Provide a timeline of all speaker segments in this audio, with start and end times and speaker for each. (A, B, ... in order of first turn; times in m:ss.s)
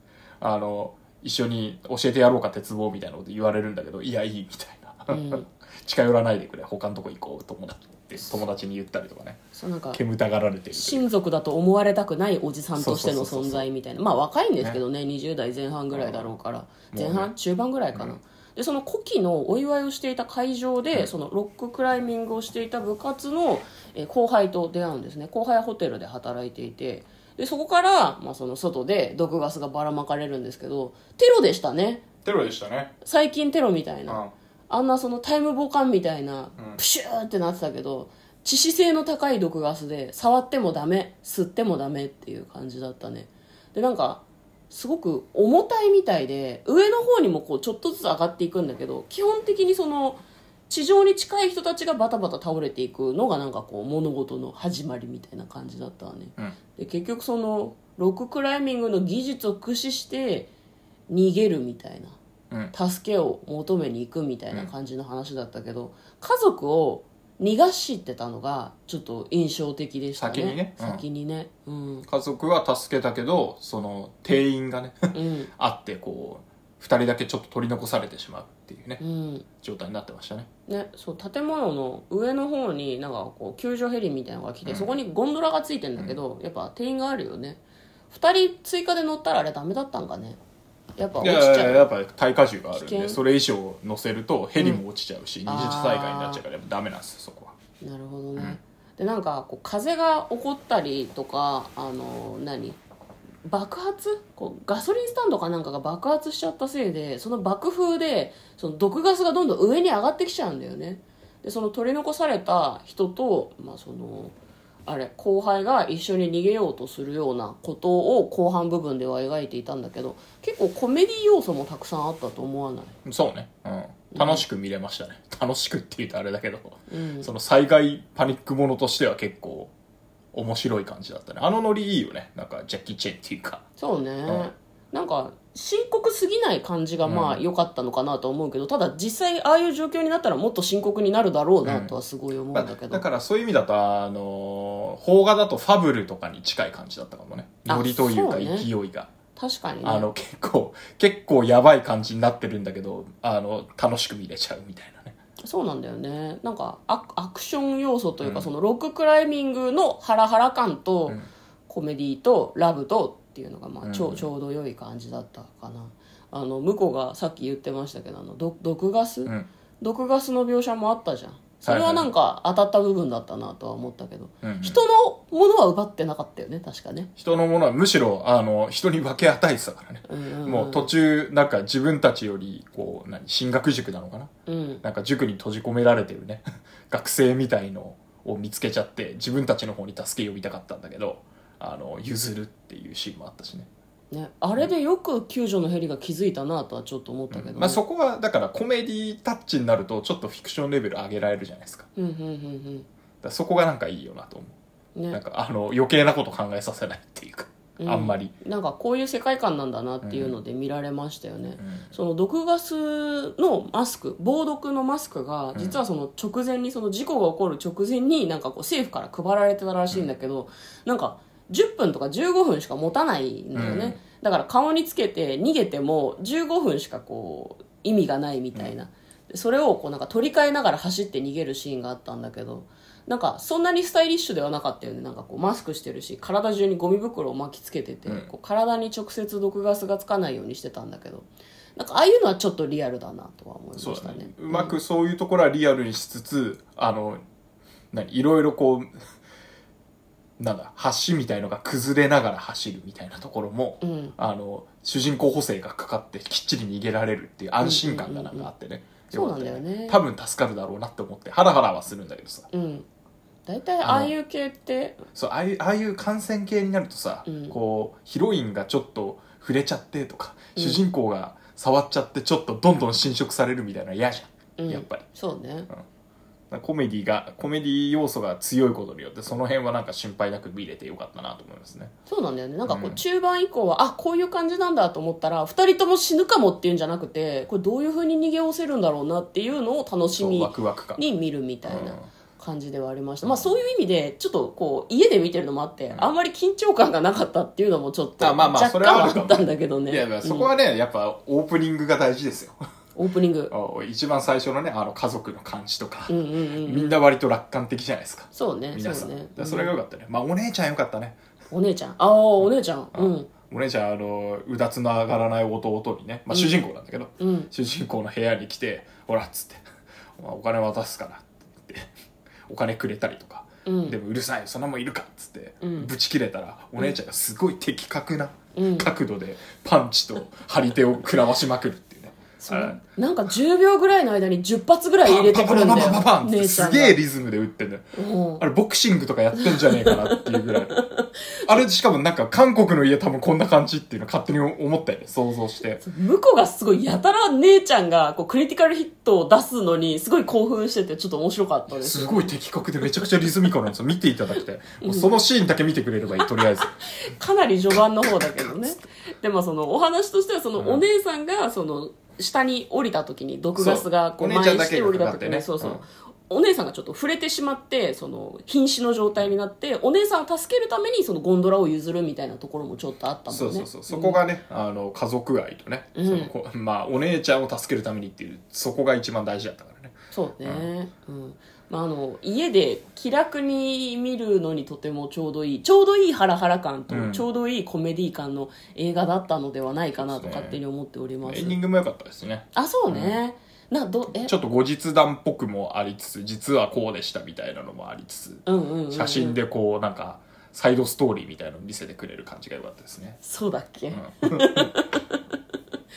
0:00.4-0:11.1 A
0:05.1-0:05.5 B
0:09.6-0:10.0 B
0:10.7-0:32.0 B
0:12.8-0:13.6 A
0:15.9-0:16.3 A
0:16.9-0:17.3 A
0:32.2-0:32.9 A
0:33.0-1:00.5 B
0:34.1-0:34.3 A
1:01.1-1:02.2 B
1:02.7-1:12.1 B
1:10.2-1:11.0 A
1:12.1-1:19.0 A
1:15.1-1:15.5 B
1:19.0-1:19.5 B
1:19.6-1:20.5 A
1:20.7-1:30.4 B
1:24.7-1:24.9 A
1:31.0-1:31.9 B
1:31.2-1:37.6 A
1:32.7-1:33.2 B
1:35.5-1:36.4 B
1:37.8-1:42.8 B
1:43.5-1:54.3 B
1:54.9-2:03.0 B
2:03.0-2:09.7 A
2:04.1-2:04.4 B
2:06.9-2:07.3 B
2:10.3-2:13.6 A
2:13.8-2:23.0 B
2:17.0-2:17.4 A
2:21.6-2:21.9 A
2:22.5-2:29.1 A
2:27.7-2:28.7 B
2:29.4-2:30.1 B
2:29.8-2:35.2 A
2:35.4-2:57.1 B
2:38.2-2:38.5 A
2:43.8-2:44.2 A
2:51.6-2:52.1 A
2:54.4-2:54.8 A
2:57.2-3:04.3 A
3:00.1-3:00.9 B
3:04.5-3:04.8 B
3:04.8-3:13.7 A
3:14.1-3:17.8 B
3:17.3-3:21.9 A
3:22.0-3:22.9 B
3:23.2-3:24.6 A
3:25.1-3:28.3 A
3:27.8-4:04.8 B
3:30.0-3:30.4 A
3:31.6-3:31.9 A
3:35.6-3:35.8 A
3:43.6-3:44.0 A
4:03.8-4:07.2 A
4:07.9-4:08.9 A
4:10.4-4:22.5 A
4:13.8-4:14.1 B
4:17.6-4:18.5 B
4:19.1-4:20.0 B
4:22.5-4:22.9 B
4:23.5-4:25.1 B
4:23.8-4:24.1 A
4:25.2-4:35.0 A
4:27.3-4:27.6 B
4:30.6-4:30.8 B
4:34.6-4:35.7 B
4:36.5-4:41.9 A
4:42.1-5:00.5 B
4:42.7-4:43.0 A
4:50.2-4:51.0 A
4:51.7-4:52.1 A
4:53.2-4:53.5 A
4:58.2-5:02.6 A
5:03.0-5:03.5 B
5:03.5-5:11.2 A
5:06.1-5:07.0 B
5:08.3-5:09.7 B
5:11.5-5:13.3 B
5:12.9-5:19.6 A
5:16.3-5:16.7 B
5:17.2-5:17.5 B
5:20.2-5:21.9 A
5:22.5-5:32.8 A
5:23.7-5:24.0 B
5:25.6-5:25.9 B
5:28.6-5:28.9 B
5:32.4-5:37.0 B
5:35.0-5:40.8 A
5:38.0-5:38.4 B
5:39.4-5:41.6 B
5:41.5-5:45.8 A
5:45.8-5:52.3 B
5:51.7-5:56.7 A
5:54.8-5:55.1 B
5:56.1-6:14.2 B
6:00.6-6:00.8 A
6:03.6-6:05.8 A
6:13.3-6:20.7 A
6:16.0-6:16.3 B
6:20.1-6:31.6 B
6:26.9-6:27.2 A
6:30.0-6:30.6 A
6:31.2-6:33.2 A
6:32.6-6:34.3 B
6:34.1-6:43.2 A
6:38.5-6:39.4 B
6:43.2-6:45.2 B
6:43.9-6:44.7 A